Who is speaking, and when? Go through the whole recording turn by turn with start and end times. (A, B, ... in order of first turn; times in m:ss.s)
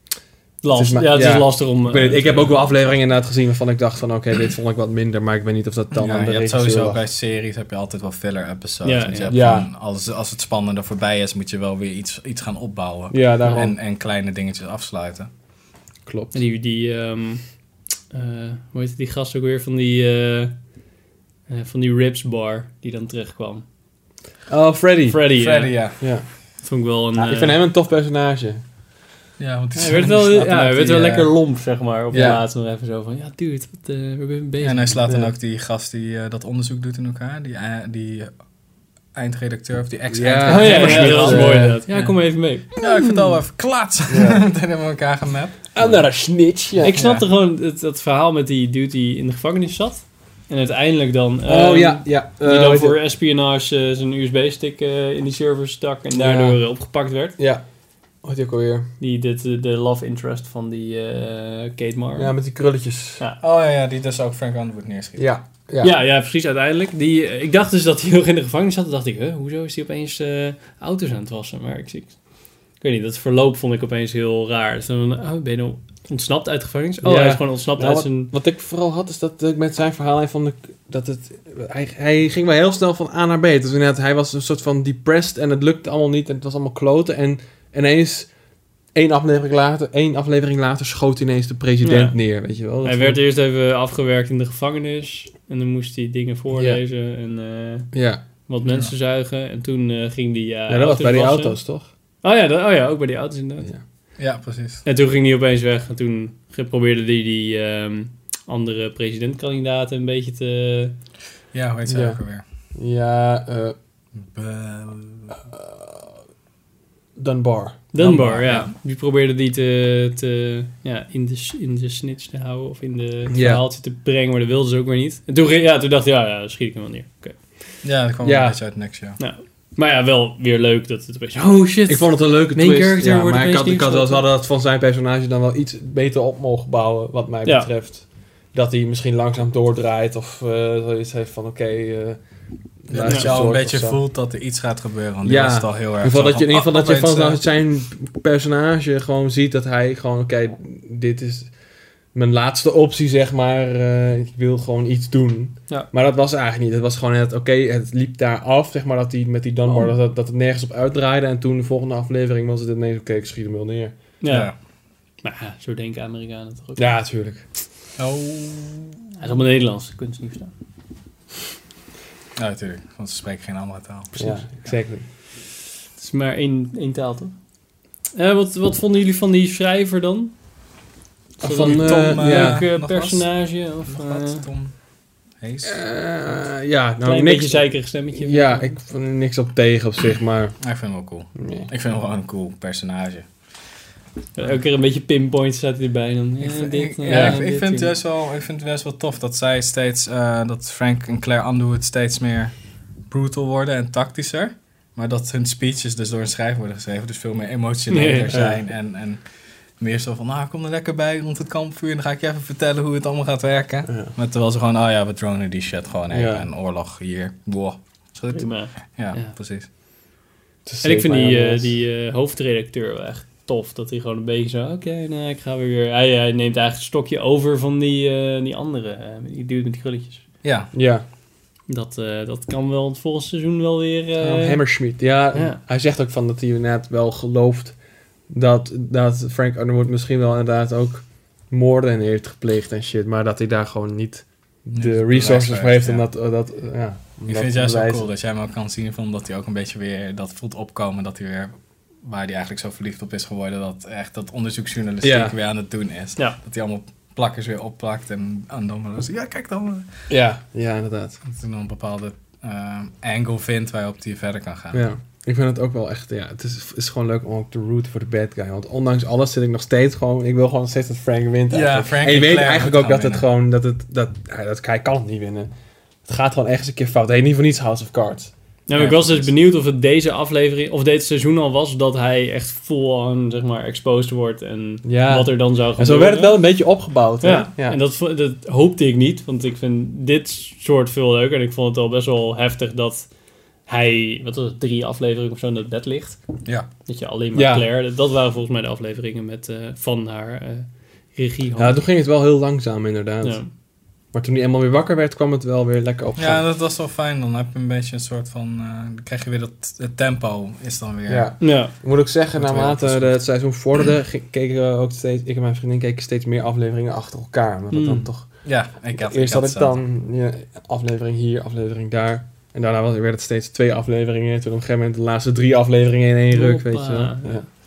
0:00.6-0:02.5 A
0:00.7-0:07.0 B
0:05.9-0:15.3 C
0:08.8-0:09.4 A
0:09.3-0:09.7 B
0:13.1-0:13.8 B
0:16.0-0:16.4 B
0:16.3-0:17.4 A
0:18.1-0:20.6 A
0:21.5-0:23.6 A
0:24.5-0:25.2 B
0:25.1-0:25.9 A
0:25.4-0:26.0 C
0:26.0-0:26.2 B
0:26.6-0:27.6 A
0:27.2-0:28.6 B
0:29.4-0:30.4 C
0:29.8-0:35.0 A
0:30.3-0:31.3 B
0:32.1-0:32.4 B
0:32.1-0:32.4 C
0:34.6-0:38.3 C
0:35.1-0:35.3 B
0:39.1-0:45.9 C
0:40.1-0:41.8 B
0:40.5-0:42.9 A
0:44.1-0:44.4 B
0:45.7-0:47.0 B
0:46.8-0:57.4 A
0:46.9-0:47.3 C
0:51.4-0:53.0 B
0:56.1-0:56.6 B
0:58.2-0:58.9 B
0:59.0-1:02.3 A
1:02.2-1:03.2 B
1:03.4-1:05.3 C
1:05.2-1:05.9 B
1:05.8-1:12.2 A
1:12.8-1:18.3 A
1:17.0-1:28.3 B
1:28.9-1:33.2 B
1:31.8-1:32.2 A
1:32.8-1:37.9 A
1:36.5-1:36.8 B
1:37.9-1:38.2 B
1:38.5-1:41.6 A
1:38.6-1:38.9 C
1:40.7-1:41.9 B
1:42.2-1:43.7 A
1:44.2-1:44.8 C
1:44.8-1:50.9 A
1:51.5-1:52.4 C
1:51.9-1:52.2 B
1:52.7-1:53.7 B
1:54.2-1:55.4 C
1:55.5-1:56.0 B
1:57.2-1:58.6 B
1:57.9-2:07.4 A
1:58.4-1:58.7 C
2:03.3-2:03.6 B
2:07.8-2:09.2 C
2:08.2-2:08.6 B
2:09.2-2:14.2 A
2:11.8-2:22.2 B
2:22.8-2:24.0 B
2:22.9-2:27.4 C
2:23.0-2:23.3 A
2:25.2-2:31.5 B
2:32.1-2:43.9 B
2:44.2-2:44.5 A
2:44.3-2:44.5 C
2:45.2-2:46.9 A
2:46.8-2:47.4 B
2:48.0-2:49.0 C
2:49.2-2:50.5 A
2:52.4-2:54.8 C
2:54.2-2:55.0 B
2:56.0-2:57.4 A
2:58.1-3:00.3 A
3:01.4-3:04.5 A
3:01.4-3:02.7 B
3:01.6-3:04.7 C
3:05.4-3:05.8 C
3:05.6-3:10.6 B
3:07.0-3:08.7 A
3:10.6-3:13.2 C
3:11.4-3:11.7 B
3:14.4-3:17.9 A
3:16.4-3:22.5 C
3:17.1-3:17.4 B
3:23.1-3:29.2 C
3:27.9-3:28.3 A
3:28.3-3:28.6 B
3:29.8-3:39.7 C
3:36.1-3:36.5 B
3:38.3-3:39.3 A
3:40.6-3:41.8 B
3:40.8-3:50.2 A
3:50.4-3:50.7 C
3:50.7-3:51.0 B
3:51.7-3:54.6 A
3:54.2-3:57.8 B
3:55.3-3:55.6 A
3:58.3-4:08.0 B
4:04.7-4:06.0 C
4:07.3-4:11.5 C
4:12.0-4:19.9 C
4:15.0-4:15.3 B
4:20.1-4:21.2 B
4:21.3-4:24.9 C
4:24.7-4:35.5 B
4:31.5-4:33.2 C
4:36.0-4:39.3 B
4:38.7-4:46.4 A
4:44.8-4:47.8 B
4:47.2-4:53.1 A
4:53.6-4:56.2 A
4:56.8-5:01.8 A
4:57.3-4:57.6 B
5:01.6-5:03.4 B
5:03.2-5:03.5 A
5:04.1-5:06.4 B
5:06.2-5:11.3 C
5:11.1-5:18.4 B
5:11.4-5:11.7 A
5:12.3-5:13.2 C
5:17.7-5:18.1 A
5:18.4-5:19.8 C
5:18.9-5:27.4 B
5:26.3-5:27.4 A